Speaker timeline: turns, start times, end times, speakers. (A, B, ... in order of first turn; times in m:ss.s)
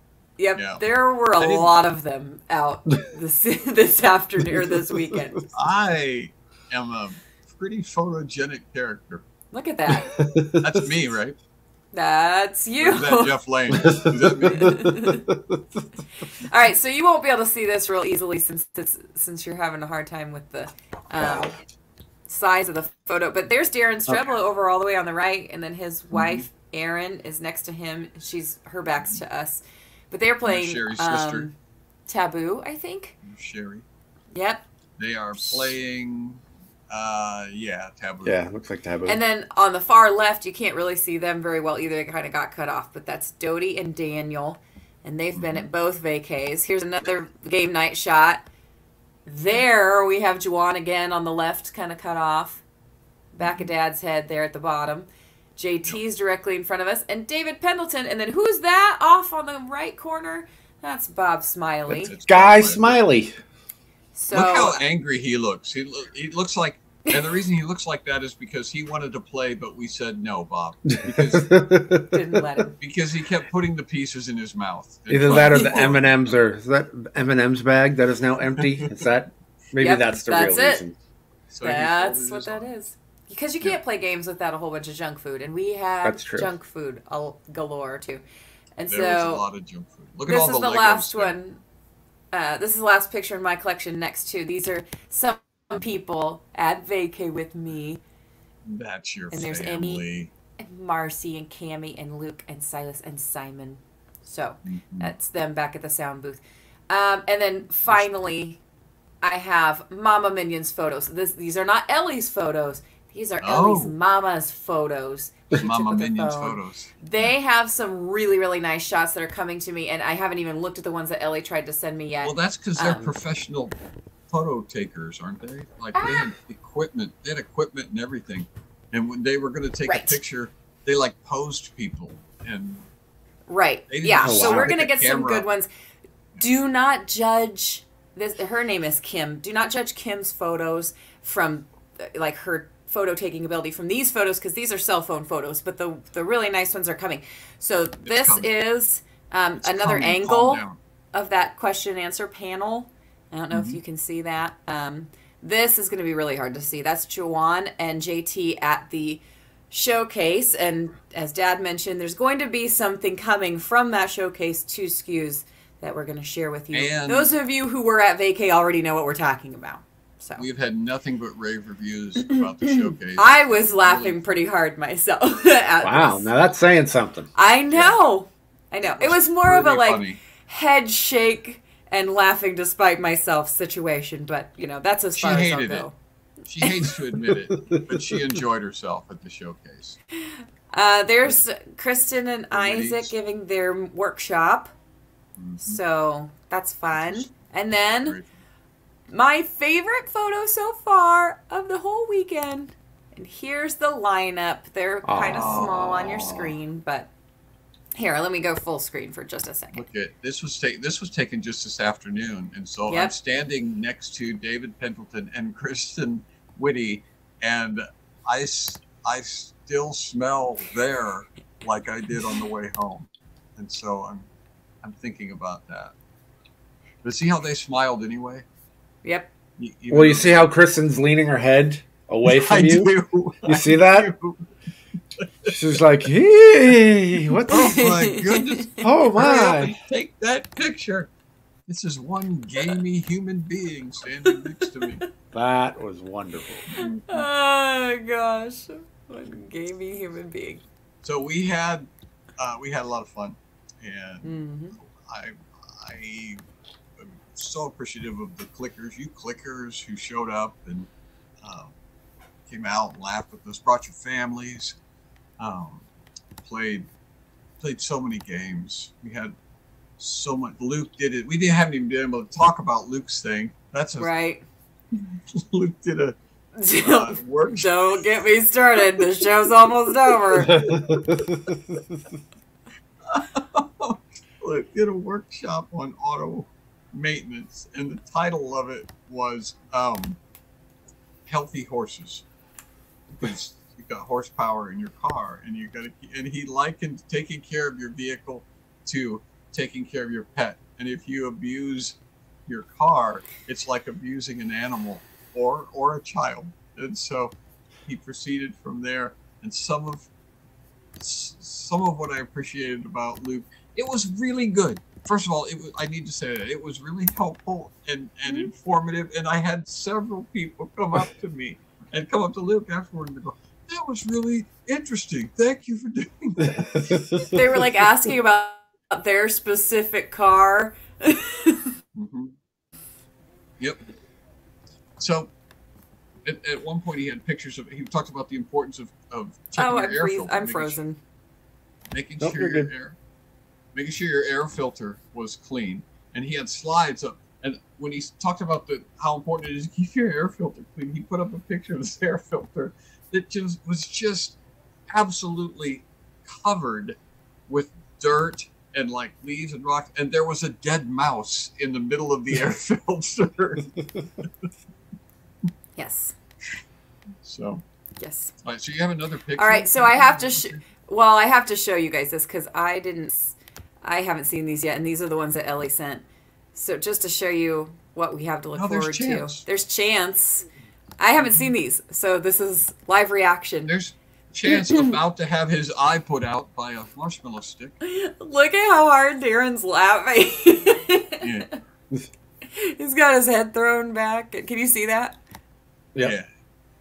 0:00.4-0:05.4 A
0:00.6-0:00.8 B
0:01.4-0:01.7 B
0:05.5-0:09.2 B
0:09.5-0:10.2 A
0:10.1-0:10.8 C
0:10.5-0:11.4 B
0:11.9-0:13.3 A
0:12.8-0:14.9 B
0:13.7-0:15.6 C
0:14.5-0:15.2 A
0:16.4-0:21.6 A
0:22.3-0:31.5 A
0:26.1-0:26.4 B
0:30.4-0:31.5 B
0:32.1-0:33.2 A
0:33.2-0:33.8 B
0:34.3-0:34.6 A
0:35.0-0:38.4 B
0:38.2-0:39.2 C
0:39.0-0:48.4 A
0:45.3-0:45.7 B
0:49.2-0:52.6 A
0:53.3-1:02.1 A
0:53.4-0:53.7 B
1:01.9-1:03.0 B
1:02.3-1:03.3 C
1:04.1-1:04.8 A
1:04.3-1:11.6 B
1:10.9-1:12.5 C
1:12.1-1:12.8 A
1:12.8-1:16.2 B
1:15.1-1:20.9 C
1:15.3-1:15.9 A
1:18.6-1:18.9 B
1:19.8-1:20.8 A
1:21.5-1:22.7 B
1:21.6-1:28.2 A
1:26.0-1:26.5 C
1:28.8-1:29.4 A
1:28.9-1:31.3 B
1:30.3-1:31.6 A
1:32.3-1:38.0 A
1:38.6-1:40.3 B
1:39.3-1:40.0 A
1:40.6-1:48.6 A
1:44.6-1:45.1 B
1:49.2-2:03.2 A
1:53.4-1:54.0 B
1:55.6-1:56.9 B
2:02.2-2:03.7 B
2:04.3-2:12.8 B
2:05.9-2:06.3 A
2:09.9-2:10.2 A
2:13.5-2:15.7 A
2:13.9-2:15.5 B
2:14.2-2:14.8 C
2:16.4-2:30.6 A
2:28.0-2:28.5 B
2:29.6-2:30.8 B
2:31.1-2:50.4 A
2:33.5-2:33.8 B
2:46.7-2:47.3 B
2:50.4-2:54.2 B
2:52.3-2:56.3 A
2:55.8-2:57.3 C
2:57.3-3:05.9 A
2:58.8-3:00.2 B
3:05.2-3:05.9 B
3:06.4-3:10.0 B
3:07.6-3:08.0 C
3:10.2-3:14.7 A
3:12.5-3:13.1 B
3:15.4-3:15.8 B
3:15.6-3:18.2 A
3:16.9-3:17.3 B
3:17.8-3:18.3 B
3:19.1-3:27.1 A
3:25.0-3:26.2 C
3:25.3-3:26.5 B
3:27.9-3:29.8 A
3:29.7-3:44.3 B
3:32.9-3:33.1 A
3:44.8-3:45.9 B
3:47.0-3:48.4 B
3:49.0-3:49.3 A
3:49.6-3:50.5 B
3:49.9-3:52.9 C
3:52.2-3:54.4 B
3:53.4-3:54.1 C
3:55.2-3:55.6 B
3:55.4-3:57.8 C
3:57.5-4:01.1 B
3:57.5-3:58.8 A
3:58.8-3:59.7 C
4:01.7-4:05.0 B
4:05.3-4:06.6 C
4:06.7-4:07.2 B
4:06.7-4:10.6 A
4:11.0-4:16.4 B
4:14.2-4:14.7 A
4:17.0-4:20.9 B
4:21.4-4:21.7 B
4:22.5-4:24.8 B
4:25.4-4:25.8 B
4:26.4-4:26.9 B
4:27.6-4:29.3 B
4:30.0-4:34.1 B
4:34.0-4:34.4 A
4:35.1-4:36.2 B
4:36.6-4:40.6 A
4:36.7-4:38.0 B
4:40.3-4:41.2 B
4:40.4-4:41.8 C
4:43.1-4:50.2 B
4:51.3-4:52.2 B
4:53.2-5:07.3 B
5:07.8-5:10.1 B
5:11.0-5:26.6 B
5:26.4-5:27.4 C
5:27.2-5:31.7 A
5:31.9-5:32.3 B
5:35.0-5:35.3 B
5:36.2-5:40.8 B
5:39.6-5:41.0 A
5:41.9-5:43.0 B
5:42.2-5:42.7 C
5:43.7-5:54.4 B
5:54.9-6:03.8 B
6:05.8-6:06.1 A
6:07.2-6:07.6 B
6:08.0-6:08.3 A
6:08.4-6:10.6 B
6:09.4-6:16.0 A
6:16.5-6:20.5 A
6:18.6-6:19.4 B
6:21.0-6:23.8 A
6:23.6-6:27.7 B
6:24.5-6:24.9 A
6:27.8-6:31.4 A
6:31.2-6:31.5 B
6:32.5-6:35.2 A
6:36.0-6:36.2 B